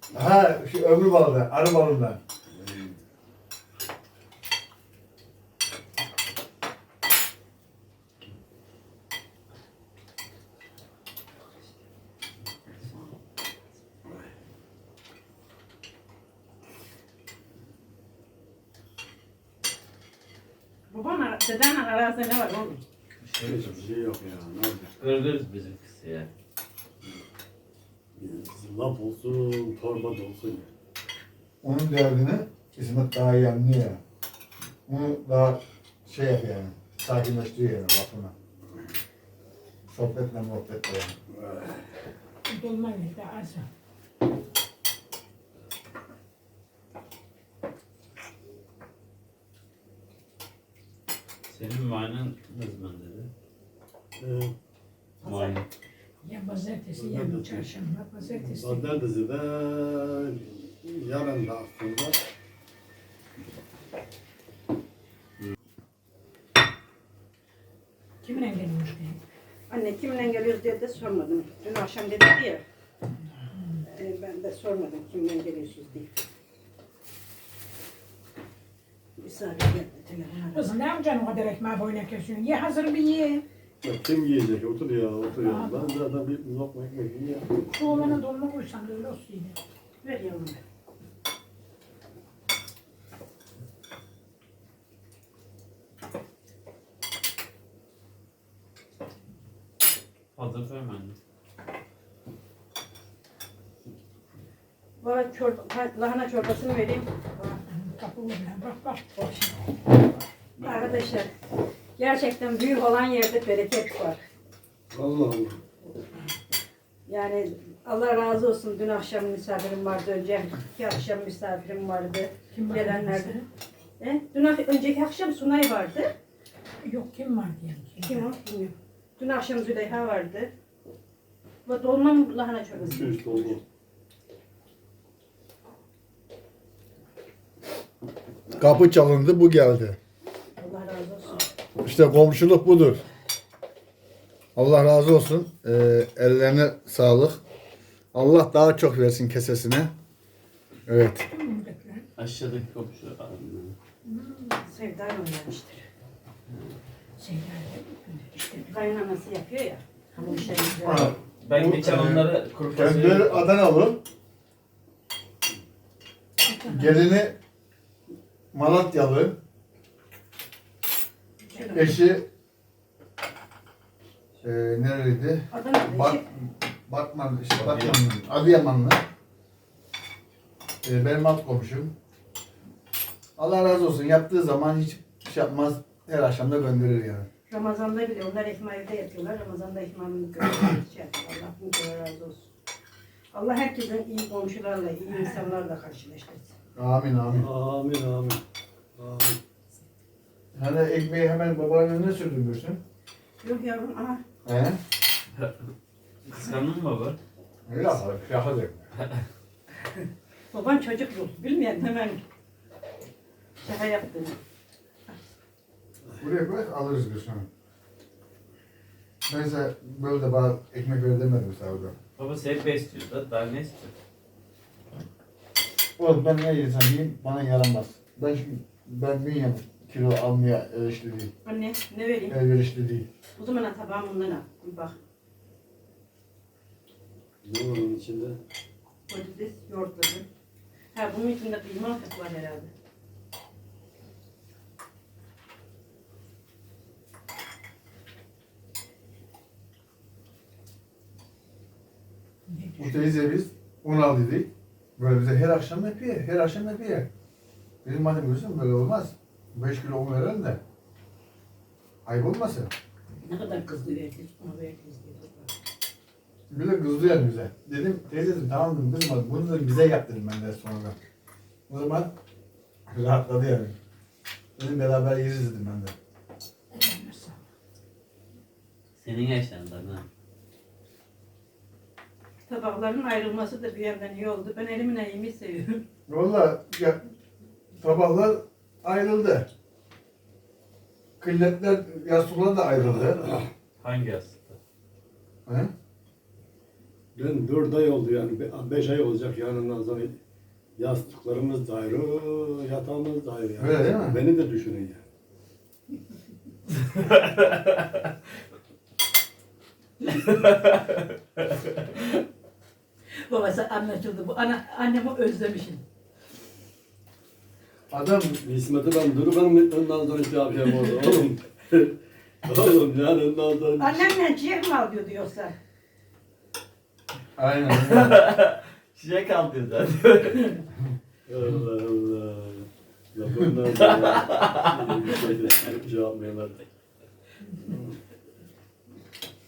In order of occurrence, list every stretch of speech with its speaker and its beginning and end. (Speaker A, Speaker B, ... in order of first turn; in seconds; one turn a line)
Speaker A: 0.1-2.2
Speaker B: 2.5-3.0
Speaker C: 20.9-22.8
Speaker D: 23.2-23.9
Speaker B: 23.4-24.9
Speaker D: 24.9-26.3
Speaker B: 28.2-30.7
Speaker A: 31.6-34.0
Speaker A: 34.9-38.3
Speaker A: 39.9-41.1
Speaker E: 42.5-43.7
Speaker D: 51.5-53.3
Speaker B: 54.2-54.5
Speaker C: 55.2-55.6
Speaker D: 55.2-55.6
Speaker E: 56.2-59.0
Speaker B: 56.9-62.2
Speaker E: 68.2-69.2
Speaker C: 69.7-72.6
Speaker E: 73.5-73.8
Speaker C: 73.8-76.1
Speaker C: 79.2-80.7
Speaker E: 80.5-83.4
Speaker B: 83.8-88.2
Speaker E: 85.4-86.0
Speaker E: 87.7-89.6
Speaker C: 90.0-90.6
Speaker D: 100.3-101.2
Speaker C: 105.0-107.2
Speaker E: 107.3-109.1
Speaker C: 109.1-109.8
Speaker C: 110.6-111.3
Speaker C: 112.0-114.2
Speaker B: 114.9-115.6
Speaker C: 115.8-116.1
Speaker C: 117.1-123.4
Speaker E: 122.5-123.5
Speaker C: 124.0-126.1
Speaker E: 126.8-128.3
Speaker C: 128.0-130.5
Speaker C: 131.6-133.2
Speaker B: 132.8-133.6
Speaker A: 138.6-140.0
Speaker C: 140.6-141.4
Speaker A: 141.8-143.0
Speaker A: 144.6-147.4
Speaker A: 148.1-149.9
Speaker A: 150.9-151.2
Speaker E: 151.3-152.1
Speaker D: 152.2-153.8
Speaker E: 154.1-154.4
Speaker C: 154.4-155.8
Speaker D: 156.5-156.8
Speaker E: 157.2-158.8
Speaker C: 158.7-161.1
Speaker E: 160.2-160.5
Speaker A: 160.8-164.0
Speaker D: 161.4-163.5
Speaker E: 166.4-167.0
Speaker A: 166.7-167.3
Speaker A: 168.5-169.4
Speaker C: 171.4-172.0
Speaker E: 171.5-171.7
Speaker A: 171.7-172.2
Speaker A: 174.4-179.0
Speaker C: 175.5-176.2
Speaker D: 177.5-178.0
Speaker A: 180.8-181.9
Speaker A: 183.4-187.3
Speaker C: 187.5-192.5
Speaker C: 193.3-196.5
Speaker A: 196.8-197.5
Speaker B: 197.3-198.4
Speaker B: 199.0-199.4
Speaker A: 200.5-202.8
Speaker C: 203.4-204.2
Speaker A: 204.4-204.8
Speaker D: 206.2-207.2
Speaker A: 207.7-208.8
Speaker C: 210.5-212.2
Speaker C: 213.6-214.4
Speaker A: 216.2-217.5
Speaker A: 219.3-221.9
Speaker D: 222.2-223.9
Speaker A: 226.0-231.3
Speaker C: 231.4-232.4
Speaker A: 232.3-233.1
Speaker C: 233.3-234.9
Speaker B: 237.4-238.4
Speaker C: 239.1-240.2
Speaker C: 240.9-242.7
Speaker E: 252.5-253.1
Speaker A: 252.8-257.1
Speaker A: 257.8-260.6
Speaker A: 262.1-262.7
Speaker C: 263.2-265.5
Speaker A: 266.5-271.0
Speaker A: 271.7-272.1
Speaker A: 272.9-273.8
Speaker A: 274.6-275.9
Speaker E: 276.7-277.4
Speaker D: 279.0-280.1
Speaker C: 282.4-285.8
Speaker A: 286.1-287.0
Speaker A: 287.8-289.5
Speaker A: 291.2-293.3
Speaker D: 293.8-294.6
Speaker A: 295.4-295.7
Speaker B: 297.1-300.1
Speaker B: 300.8-305.0
Speaker A: 303.6-304.2
Speaker D: 306.9-308.1
Speaker D: 310.2-311.8
Speaker C: 313.2-315.8
Speaker A: 317.9-318.4
Speaker B: 318.4-321.9
Speaker B: 322.4-324.1
Speaker C: 323.8-325.6
Speaker A: 327.4-328.1
Speaker D: 327.7-330.6
Speaker B: 331.3-336.6
Speaker D: 334.0-334.8